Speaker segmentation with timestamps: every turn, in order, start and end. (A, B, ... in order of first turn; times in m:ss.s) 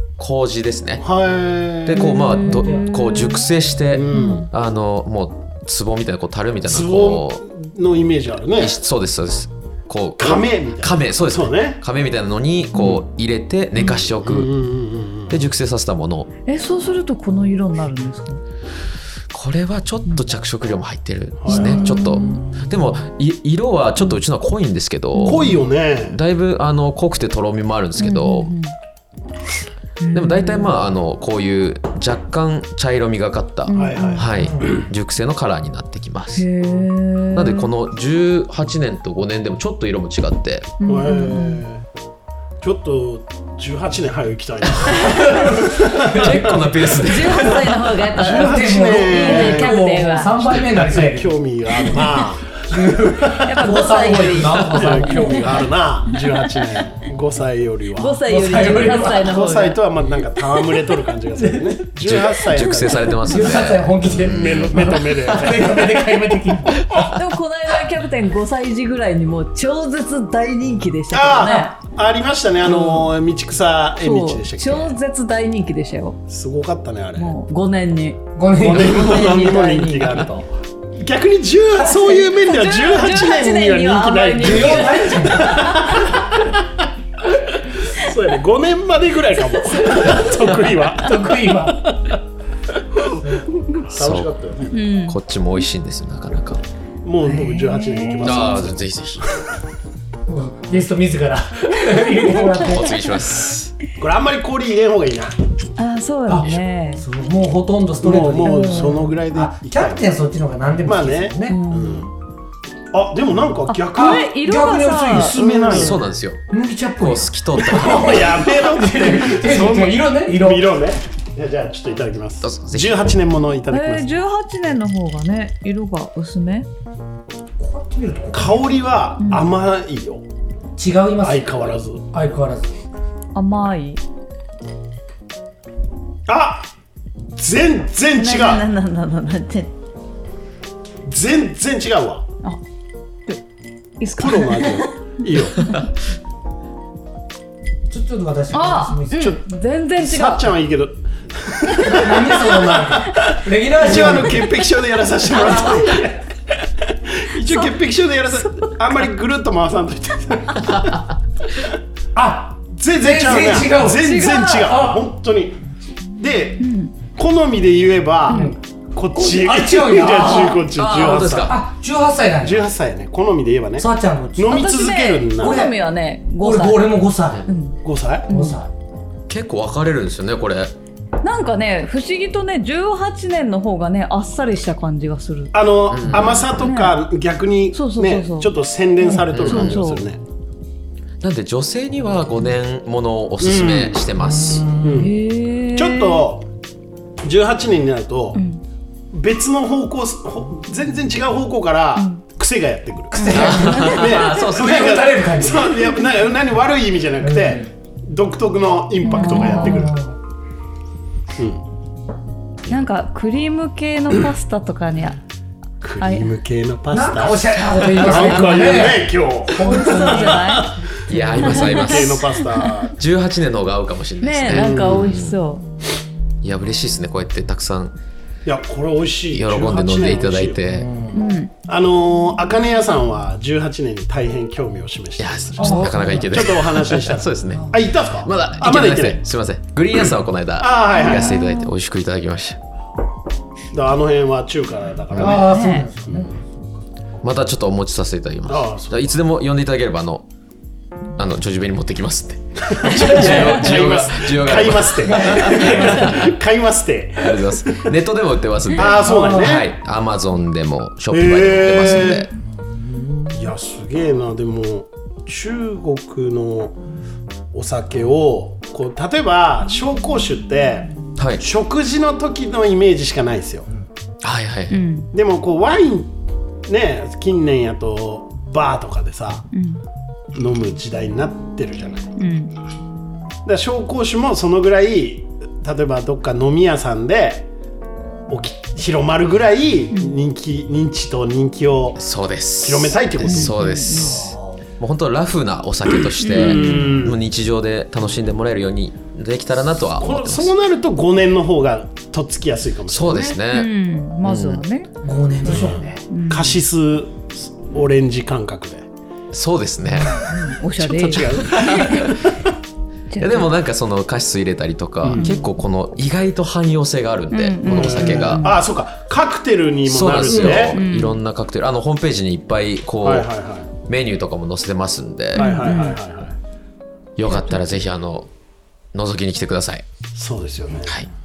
0:00.2-0:01.0 A
0:01.0-0:02.2 B
0:01.8-0:07.4 A
0:01.9-0:03.5 C
0:02.4-0:02.8 D
0:03.9-0:04.5 B
0:04.1-0:04.5 C
0:06.6-0:08.8 B
0:08.6-0:14.5 A
0:10.2-0:11.8 B
0:14.1-0:15.4 B
0:15.3-0:16.3 A
0:16.4-0:18.4 C
0:19.3-0:25.6 A
0:21.4-0:22.0 B
0:21.5-0:22.4 C
0:25.1-0:25.6 C
0:25.2-0:26.2 B
0:26.1-0:28.5 A
0:28.0-0:28.7 C
0:30.0-0:30.8 C
0:30.1-0:36.4 A
0:33.7-0:34.4 C
0:33.7-0:34.8 B
0:34.3-0:34.7 D
0:36.4-0:37.7 C
0:37.3-0:40.7 A
0:40.8-0:41.6 C
0:40.8-0:41.8 B
0:42.6-0:46.9 B
0:44.9-0:46.6 D
0:46.0-0:47.8 A
0:46.9-0:50.4 C
0:48.1-0:52.1 D
0:48.2-0:49.7 B
0:50.7-0:53.6 B
0:52.6-0:55.6 D
0:53.4-0:55.6 C
0:54.6-0:58.2 B
0:58.0-0:59.8 C
0:58.2-0:59.3 D
0:58.9-1:03.2 B
1:01.4-1:01.8 D
1:02.0-1:05.3 A
1:03.2-1:06.9 D
1:04.0-1:06.0 B
1:06.9-1:11.7 C
1:11.1-1:15.0 B
1:12.6-1:13.1 C
1:14.0-1:16.2 C
1:16.3-1:17.3 B
1:17.2-1:20.4 C
1:18.4-1:19.4 D
1:18.5-1:26.6 B
1:21.8-1:26.0 C
1:24.4-1:26.0 D
1:27.6-1:32.2 B
1:29.5-1:30.5 C
1:30.9-1:31.8 D
1:33.0-1:34.8 B
1:33.9-1:34.3 A
1:34.7-1:35.2 C
1:35.0-1:36.6 A
1:37.0-1:39.4 B
1:37.2-1:38.6 C
1:38.2-1:39.2 A
1:40.3-1:43.0 D
1:42.6-1:43.7 A
1:44.0-1:45.4 B
1:45.8-1:47.0 C
1:46.3-1:51.6 D
1:48.0-1:50.1 B
1:48.4-1:49.1 C
1:50.8-1:52.1 B
1:51.5-1:52.0 C
1:52.9-1:54.3 B
1:53.7-1:56.0 C
1:54.0-1:55.9 D
1:55.1-1:56.0 B
1:55.7-1:56.4 A
1:56.5-2:00.7 D
1:57.0-1:58.2 A
1:57.6-2:04.1 B
2:02.4-2:03.2 A
2:03.7-2:06.7 C
2:07.6-2:08.7 D
2:08.3-2:10.2 B
2:09.2-2:09.4 C
2:10.8-2:12.8 D
2:11.2-2:12.0 B
2:13.3-2:14.0 C
2:16.3-2:16.7 B
2:17.4-2:18.6 B
2:18.2-2:19.7 C
2:21.0-2:22.2 B
2:24.0-2:24.9 C
2:24.1-2:25.7 B
2:27.9-2:29.4 D
2:28.5-2:30.4 C
2:30.0-2:41.0 B
2:31.9-2:34.5 D
2:35.3-2:36.0 C
2:35.4-2:35.8 D
2:37.4-2:37.7 C
2:42.1-2:45.0 D
2:42.7-2:45.6 B
2:43.7-2:44.8 C
2:46.2-2:51.6 B
2:46.6-2:46.9 C
2:48.3-2:48.5 C
2:48.3-2:48.6 D
2:49.1-2:52.7 D
2:50.7-2:51.6 A
2:52.4-2:55.6 B
2:53.8-2:54.6 D
2:54.5-2:58.6 C
2:55.4-2:55.8 D
2:56.4-2:57.4 D
2:57.8-2:58.3 B
2:58.3-2:58.7 D
2:59.3-3:00.7 A
3:01.2-3:05.5 C
3:05.5-3:10.2 B
3:05.9-3:06.5 A
3:06.5-3:07.0 C
3:07.7-3:08.5 C
3:09.3-3:09.8 A
3:09.4-3:10.0 C
3:11.2-3:14.7 A
3:13.4-3:14.0 B
3:14.1-3:15.1 D
3:14.8-3:15.1 B
3:15.0-3:16.2 C
3:15.7-3:16.5 B
3:17.2-3:18.4 B
3:18.3-3:18.6 C
3:19.1-3:30.0 B
3:22.0-3:22.2 C
3:23.1-3:25.9 D
3:23.2-3:24.2 C
3:23.3-3:25.0 A
3:27.2-3:27.7 D
3:29.0-3:29.9 C
3:29.1-3:30.2 D
3:31.4-3:31.6 B
3:32.7-3:35.2 C
3:35.8-3:42.9 B
3:36.0-3:36.3 C
3:36.9-3:41.4 D
3:39.6-3:40.8 C
3:41.1-3:42.2 A
3:41.4-3:42.7 C
3:42.9-3:45.4 A
3:44.2-3:45.6 C
3:44.5-3:45.2 B
3:46.4-3:47.9 A
3:48.4-3:50.6 B
3:49.3-3:50.9 A
3:50.6-3:51.2 D
3:51.1-3:51.5 C
3:51.6-3:59.2 B
3:55.2-4:02.6 A
3:55.6-3:56.4 D
3:55.6-3:56.1 C
4:00.6-4:01.4 B
4:00.9-4:01.7 C
4:03.7-4:05.5 B
4:05.1-4:06.6 D
4:05.3-4:05.9 C
4:07.2-4:10.2 A
4:08.5-4:09.2 B
4:11.2-4:16.3 A
4:12.6-4:17.9 B
4:15.2-4:16.1 D
4:17.2-4:22.3 A
4:18.7-4:19.7 B
4:19.0-4:19.6 D
4:21.1-4:22.3 B
4:22.5-4:23.5 D
4:23.3-4:26.8 B
4:27.5-4:33.7 B
4:31.2-4:31.4 A
4:34.2-4:34.8 A
4:34.7-4:35.1 C
4:35.1-4:36.1 B
4:36.7-4:39.4 B
4:39.5-4:39.8 C
4:40.3-4:42.1 B
4:42.2-4:42.5 C
4:43.4-4:47.5 B
4:48.3-4:52.0 B
4:52.0-5:00.5 A
4:52.6-4:53.6 B
4:53.2-4:54.3 C
4:53.9-4:54.6 D
4:56.2-4:57.2 B
4:56.2-4:57.0 C
5:00.0-5:03.4 B
5:02.9-5:03.7 A
5:03.4-5:04.9 C
5:04.2-5:04.6 A
5:05.0-5:06.0 D
5:05.5-5:08.9 B
5:06.1-5:06.5 C
5:09.3-5:10.3 A
5:10.0-5:10.3 D
5:10.3-5:12.2 C
5:10.8-5:12.3 B
5:11.4-5:12.2 A
5:13.1-5:13.5 C
5:13.2-5:18.5 A
5:15.0-5:15.3 B
5:15.1-5:15.5 C
5:17.3-5:18.6 C
5:17.7-5:20.8 B
5:19.8-5:23.3 A
5:20.4-5:21.2 C
5:23.0-5:23.7 B
5:23.8-5:25.7 A
5:25.3-5:26.0 C
5:25.3-5:26.4 B
5:27.2-5:28.3 A
5:27.2-5:27.7 C
5:28.9-5:29.8 A
5:30.1-5:30.9 B